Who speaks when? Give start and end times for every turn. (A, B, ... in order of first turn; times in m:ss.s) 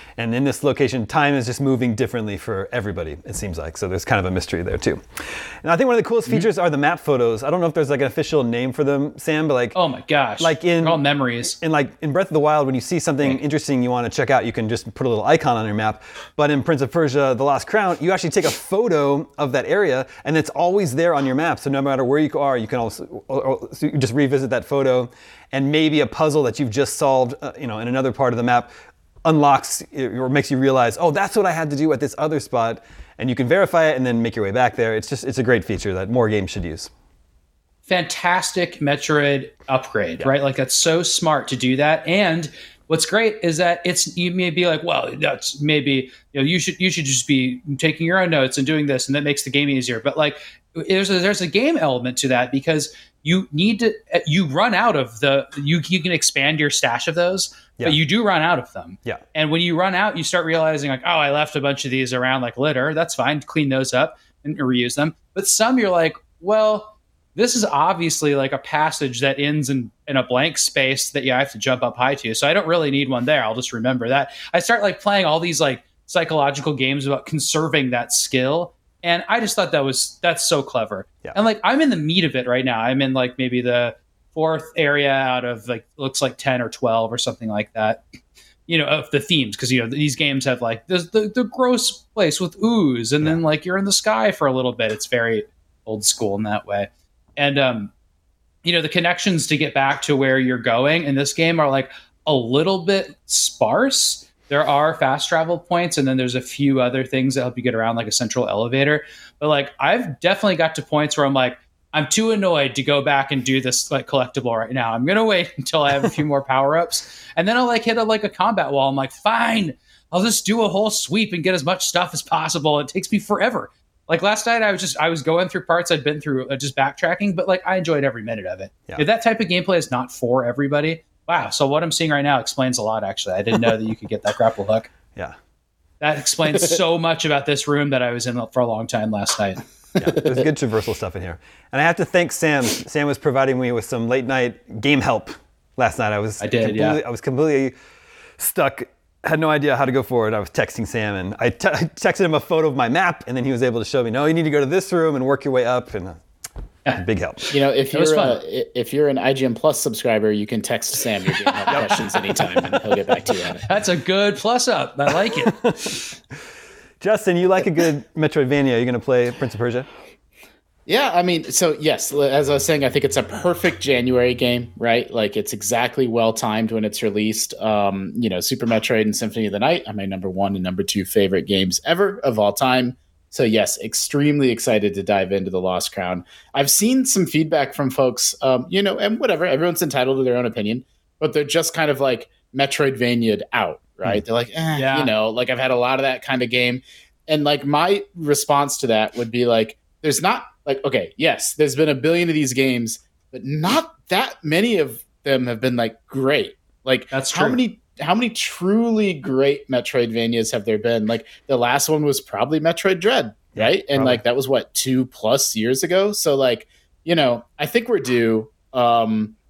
0:00.2-0:09.8 A
0:09.7-0:11.6 B
0:10.4-0:28.7 A
0:29.2-0:36.9 A
0:37.9-1:28.0 B
1:28.7-1:37.9 B
1:38.6-2:14.9 B
2:16.0-2:19.6 B
2:20.0-2:27.7 A
2:26.4-2:27.0 B
2:28.4-2:36.2 A
2:36.9-2:37.5 A
2:37.5-2:43.6 C
2:37.9-2:38.4 B
2:43.6-2:45.5 B
2:45.4-2:46.0 A
2:47.0-2:49.9 A
2:50.9-3:39.3 C
3:14.8-3:15.1 B
3:27.1-3:27.6 B
3:33.5-3:34.2 A